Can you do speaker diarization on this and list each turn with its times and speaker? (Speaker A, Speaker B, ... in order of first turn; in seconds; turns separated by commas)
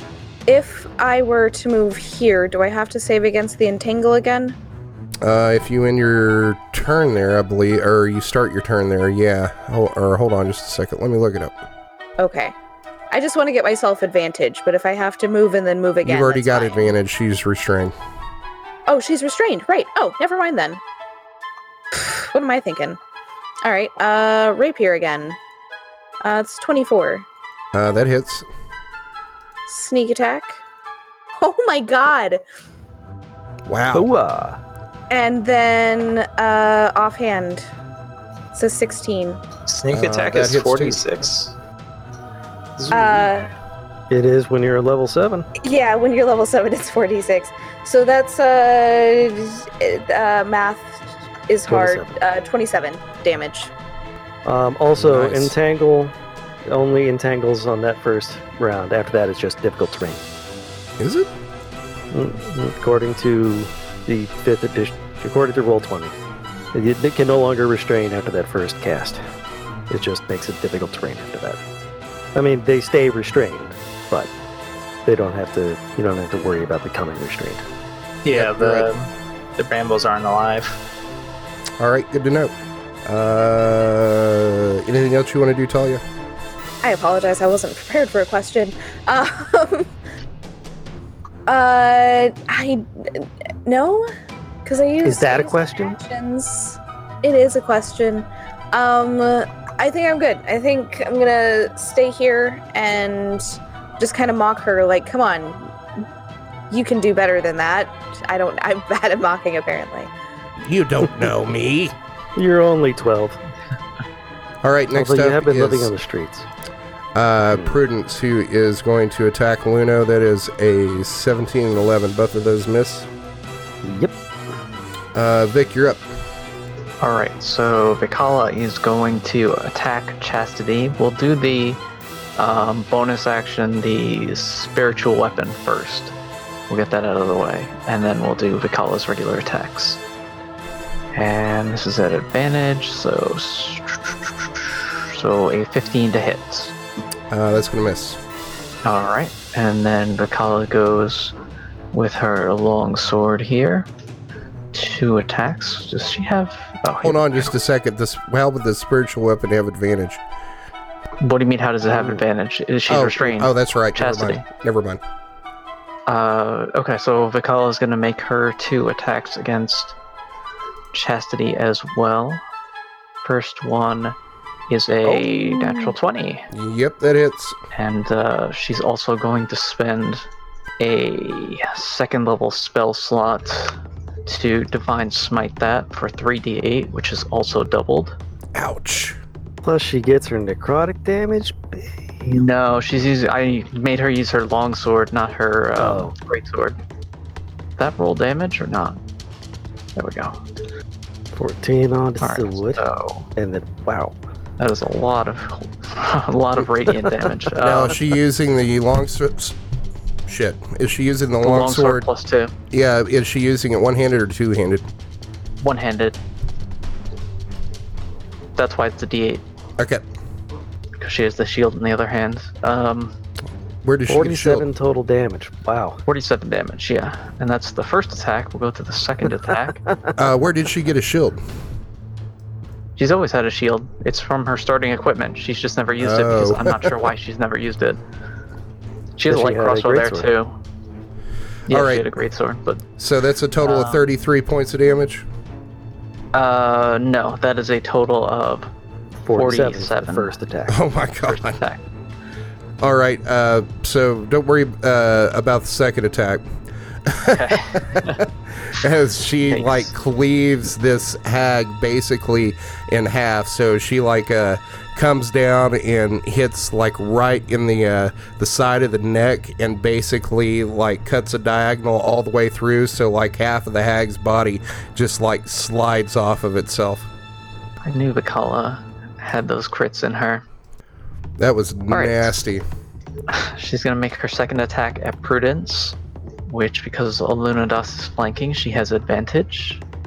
Speaker A: 0.5-4.6, Speaker B: 5.2-11.6, Speaker A: 12.2-12.6, Speaker A: 13.1-16.9, Speaker B: 16.0-17.9, Speaker A: 18.9-20.8, Speaker A: 21.9-23.0, Speaker A: 23.6-25.4, Speaker A: 26.2-27.3, Speaker B: 27.7-28.5, Speaker A: 29.7-30.6, Speaker A: 31.4-32.4, Speaker B: 33.7-34.1, Speaker C: 33.9-34.6, Speaker A: 35.1-37.7, Speaker A: 38.5-39.4, Speaker D: 39.7-41.5, Speaker B: 39.9-41.0, Speaker C: 42.8-43.2, Speaker A: 42.9-43.5, Speaker C: 44.1-45.5, Speaker A: 45.6-53.7, Speaker C: 51.7-52.2, Speaker C: 54.5-56.1, Speaker B: 55.0-55.5, Speaker C: 56.7-60.2, Speaker B: 61.0-61.3, Speaker C: 62.1-66.2, Speaker C: 66.7-69.2, Speaker C: 69.9-71.6, Speaker C: 72.3-74.3, Speaker C: 75.1-77.7, Speaker D: 78.2-80.8, Speaker B: 78.3-78.9, Speaker B: 81.8-82.5, Speaker B: 83.0-86.0, Speaker A: 86.8-89.9, Speaker A: 91.5-94.1, Speaker A: 94.7-105.7, Speaker C: 95.0-96.0, Speaker A: 106.7-110.1, Speaker B: 110.6-112.0, Speaker C: 112.4-113.4, Speaker B: 114.6-115.9, Speaker C: 114.9-116.5, Speaker B: 117.2-123.1, Speaker C: 117.5-117.8, Speaker C: 123.8-124.2, Speaker B: 125.1-126.1, Speaker E: 127.0-131.8, Speaker E: 132.4-136.1, Speaker E: 136.7-140.0, Speaker E: 141.1-146.7, Speaker B: 147.3-148.2, Speaker E: 148.8-151.4, Speaker E: 151.9-153.9, Speaker E: 154.7-157.5, Speaker B: 157.0-160.2, Speaker E: 161.2-164.4, Speaker C: 161.9-162.2, Speaker B: 162.9-165.0, Speaker E: 166.1-169.9, Speaker E: 170.9-172.4, Speaker E: 173.2-174.2, Speaker E: 174.7-176.5, Speaker C: 175.1-175.9, Speaker B: 176.5-177.6, Speaker E: 177.7-180.3, Speaker E: 180.8-188.2, Speaker B: 188.6-189.2, Speaker C: 189.6-192.4, Speaker E: 192.3-196.8, Speaker C: 195.8-196.1, Speaker E: 197.8-199.0, Speaker E: 200.0-200.4, Speaker C: 201.3-202.8, Speaker E: 202.2-203.3, Speaker C: 203.4-204.2, Speaker E: 204.6-208.1, Speaker B: 207.6-209.6, Speaker B: 210.3-212.1, Speaker E: 211.4-212.5, Speaker B: 212.7-214.9, Speaker E: 215.6-216.2, Speaker E: 218.6-219.4, Speaker B: 219.8-220.0, Speaker E: 221.0-223.1, Speaker B: 223.8-224.7, Speaker C: 224.1-226.0, Speaker E: 226.1-229.8, Speaker B: 230.2-231.4, Speaker E: 233.0-238.0, Speaker B: 236.0-236.9, Speaker E: 239.2-240.6, Speaker C: 239.3-240.3, Speaker E: 241.7-242.8, Speaker B: 241.7-242.1, Speaker B: 243.0-245.3, Speaker D: 243.7-244.0, Speaker E: 246.3-248.7, Speaker C: 249.2-250.8, Speaker E: 249.3-250.3, Speaker B: 250.7-251.6, Speaker E: 251.2-251.8, Speaker B: 252.8-256.5, Speaker B: 257.1-277.1, Speaker E: 257.3-258.2, Speaker E: 259.5-259.9, Speaker E: 277.8-280.4, Speaker B: 281.4-282.6, Speaker E: 281.9-282.3, Speaker E: 283.3-289.8